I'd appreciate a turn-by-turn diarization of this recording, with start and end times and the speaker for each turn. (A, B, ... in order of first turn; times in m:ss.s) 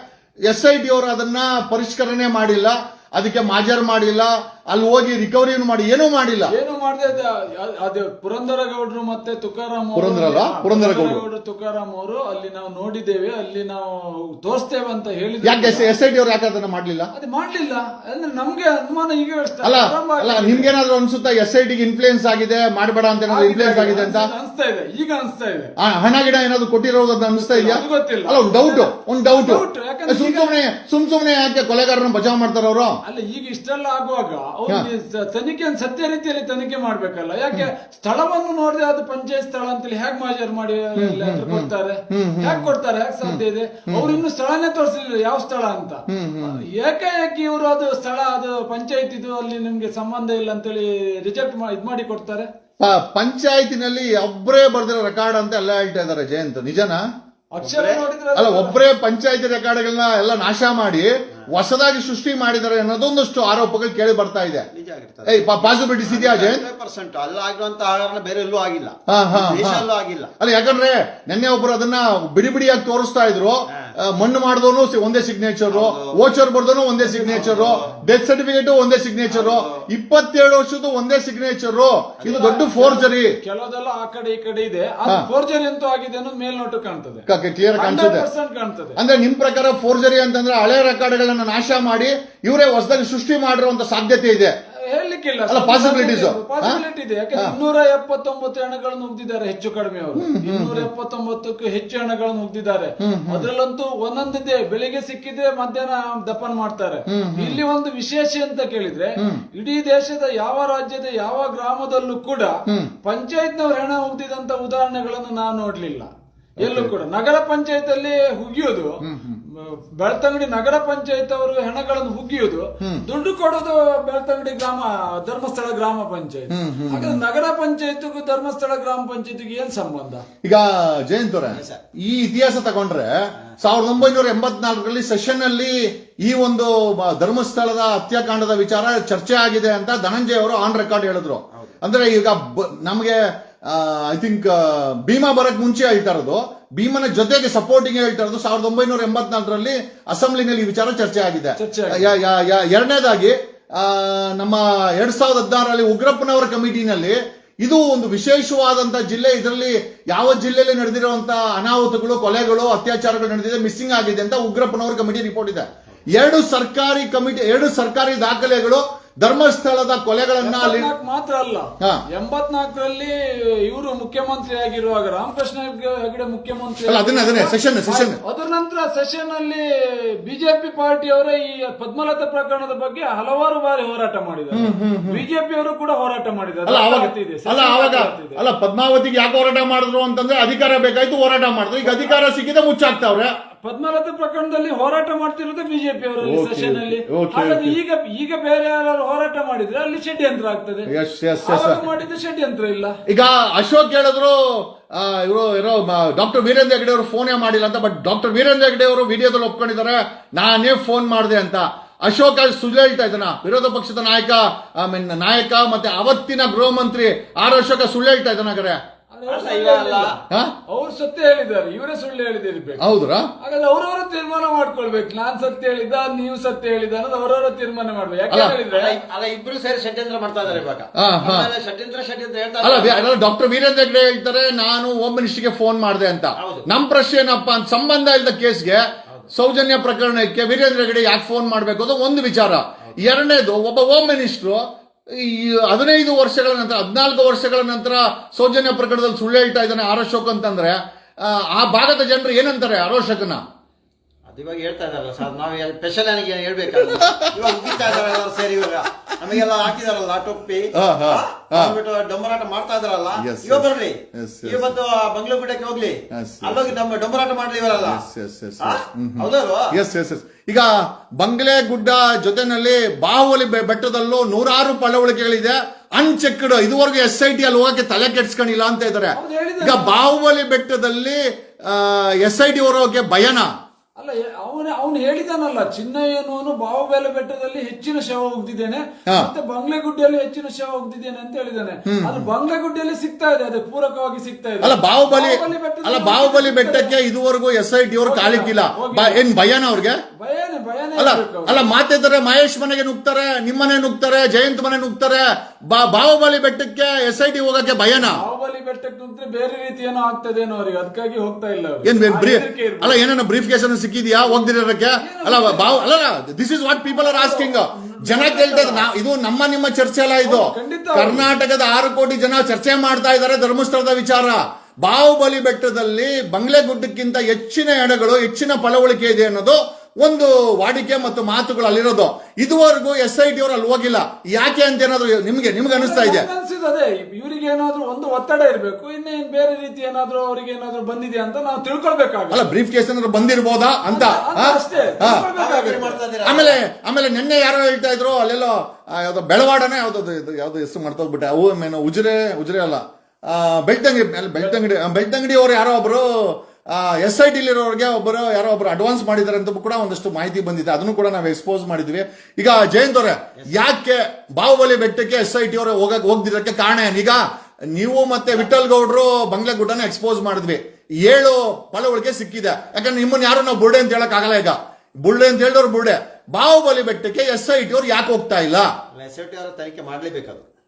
0:00.5-0:06.5 A
0:06.5-0:15.9 B
0:09.9-0:11.2 A
0:15.4-0:17.1 A
0:17.1-0:20.7 B
0:19.6-0:24.3 A
0:23.3-0:25.7 B
0:25.8-0:33.0 A
0:27.4-0:30.5 B
0:33.0-0:52.5 B
0:41.0-0:42.7 A
0:43.2-0:44.2 A
0:46.1-0:46.6 A
0:52.8-0:57.0 A
0:57.5-0:58.8 B
0:57.6-0:58.0 C
0:58.3-1:04.7 A
1:04.7-1:10.3 C
1:05.3-1:06.6 A
1:09.1-1:09.8 A
1:10.4-1:23.3 A
1:15.7-1:16.2 C
1:17.0-1:17.9 B
1:17.3-1:17.9 C
1:19.2-1:19.8 C
1:22.2-1:29.0 B
1:27.3-1:28.3 A
1:29.0-1:34.5 A
1:34.8-1:58.9 B
1:35.5-1:36.8 A
1:40.2-1:40.9 A
1:43.0-1:43.5 A
1:47.1-1:47.6 A
1:56.6-1:56.9 A
1:59.0-1:59.4 A
1:59.5-2:10.2 B
2:06.5-2:07.2 A
2:10.4-2:50.9 A
2:11.5-2:11.8 C
2:31.6-2:32.1 B
2:50.4-3:08.4 B
2:56.8-2:58.2 A
3:04.5-3:05.2 A
3:06.6-3:13.3 A
3:11.8-3:12.2 B
3:13.6-3:20.9 B
3:16.2-3:17.7 A
3:20.9-3:21.8 A
3:21.4-3:23.0 B
3:23.1-3:38.8 A
3:39.1-3:40.2 B
3:39.3-3:40.2 C
3:40.7-3:42.8 B
3:42.8-3:43.2 A
3:43.4-3:49.0 B
3:48.3-3:48.6 A
3:48.7-3:53.1 C
3:51.0-3:51.5 A
3:52.6-4:04.6 A
3:56.4-3:56.7 C
4:05.1-4:13.4 A
4:14.3-4:28.0 C
4:16.9-4:18.0 A
4:20.7-4:21.8 A
4:23.2-4:24.7 A
4:26.1-4:26.8 A
4:27.8-4:43.5 A
4:28.6-4:29.7 C
4:39.1-4:40.0 B
4:44.0-4:57.0 B
4:51.9-4:52.3 A
4:54.6-5:00.0 A
4:58.0-4:59.2 B
5:00.1-5:01.7 B
5:01.0-5:08.2 A
5:07.9-5:13.0 B
5:11.8-5:36.3 A
5:14.1-5:15.9 B
5:16.8-5:18.9 B
5:20.2-5:21.3 B
5:35.7-5:42.5 B
5:42.3-5:45.2 A
5:43.9-5:46.0 B
5:44.7-5:46.6 C
5:46.2-6:07.2 A
6:07.7-6:18.7 A
6:18.9-6:20.4 C